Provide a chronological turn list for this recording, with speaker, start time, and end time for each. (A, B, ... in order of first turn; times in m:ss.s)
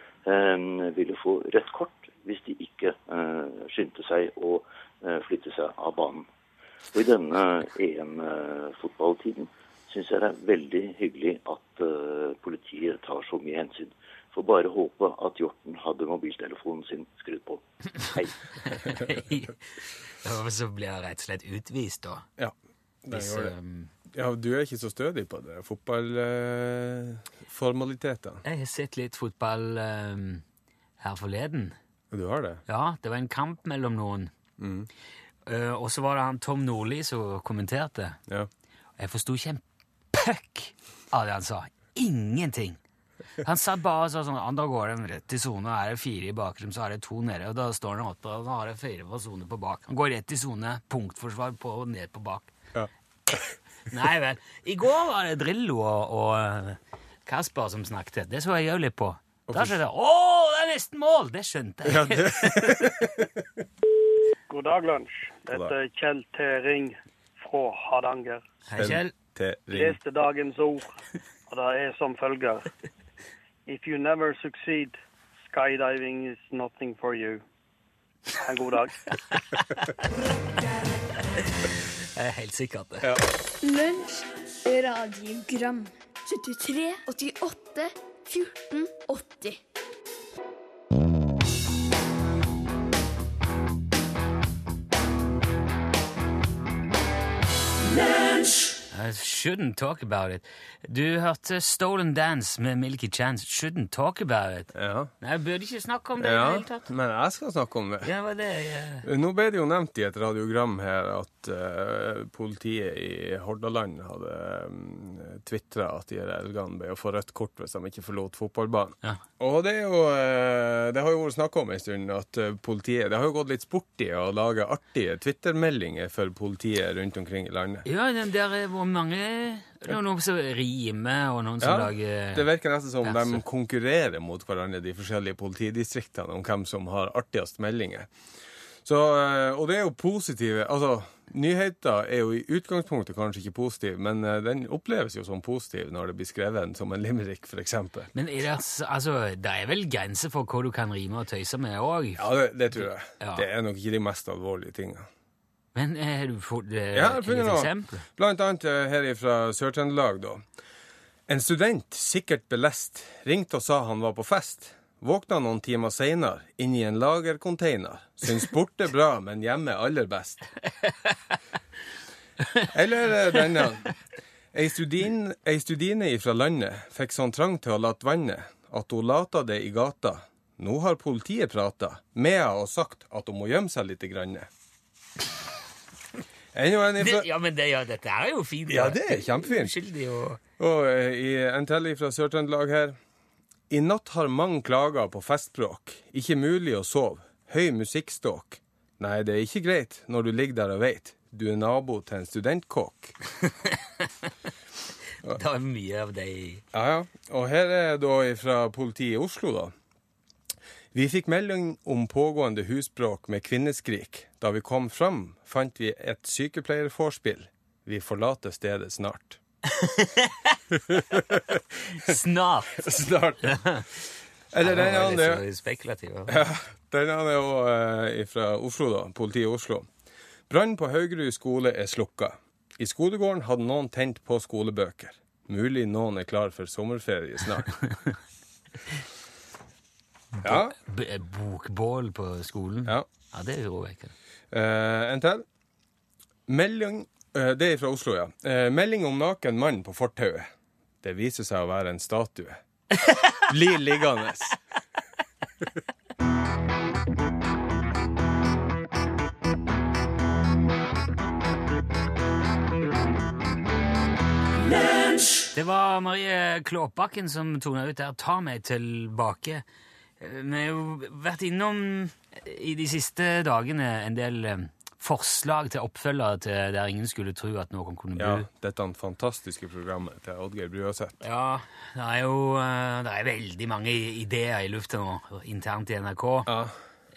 0:00.3-0:06.3 A
0:06.9-0:18.4 A
0:18.6-0:19.6 B
0:20.2-0:22.3 B
0:23.0-0:23.6 C
0:23.1-0:23.9 B
0:24.1-0:28.4 C
0:28.4-0:30.4 B
0:31.0-0:31.8 B
0:32.1-0:32.6 C
0:32.7-0:34.3 B
0:34.6-0:34.9 C
0:35.5-0:38.2 B
0:39.0-0:42.8 B
0:43.4-0:52.6 B
0:52.8-0:53.5 C
0:53.9-1:02.9 B
0:59.5-0:59.8 C
1:01.8-1:03.4 C
1:04.5-1:08.4 D
1:08.7-1:09.1 B
1:08.8-1:10.0 C
1:09.8-1:11.0 D
1:11.5-1:12.7 D
1:13.7-1:17.4 D
1:18.4-1:19.0 D
1:19.3-1:19.9 B
1:21.4-1:23.1 B
1:23.6-1:29.6 E
1:38.9-1:46.9 B
1:44.8-1:45.1 C
1:46.2-1:48.1 C
1:48.0-1:49.1 B
1:49.0-2:07.8 C
2:07.8-2:12.4 B
2:11.6-2:18.1 C
2:13.0-2:13.4 B
2:18.8-2:28.1 C
2:28.1-2:33.4 B
2:32.2-2:35.1 C
2:35.8-2:38.0 B
2:36.9-2:40.4 C
2:41.3-2:50.5 C
2:52.7-2:54.0 C
2:54.5-3:04.5 C
3:06.5-3:07.3 C
3:07.0-3:10.4 B
3:08.7-3:09.8 C
3:10.6-3:13.0 C
3:13.7-3:23.2 C
3:23.7-3:24.3 B
3:25.3-3:26.6 B
3:26.7-3:29.7 C
3:30.9-3:39.4 C
3:39.7-3:40.6 B
3:40.9-3:42.2 C
3:42.0-3:42.9 B
3:42.8-3:43.8 C
3:43.4-3:43.8 B
3:44.5-3:45.4 C
3:44.6-3:46.4 B
3:46.3-3:49.9 C
3:50.5-3:57.9 C
4:00.4-4:00.8 C
4:00.4-4:04.1 B
4:04.5-4:05.4 C
4:06.5-4:10.5 C
4:11.0-4:12.6 C
4:13.4-4:14.6 C
4:25.5-4:29.6 B
4:30.2-4:38.5 B
4:38.2-4:41.2 C
4:41.2-4:46.5 B
4:46.5-4:46.8 C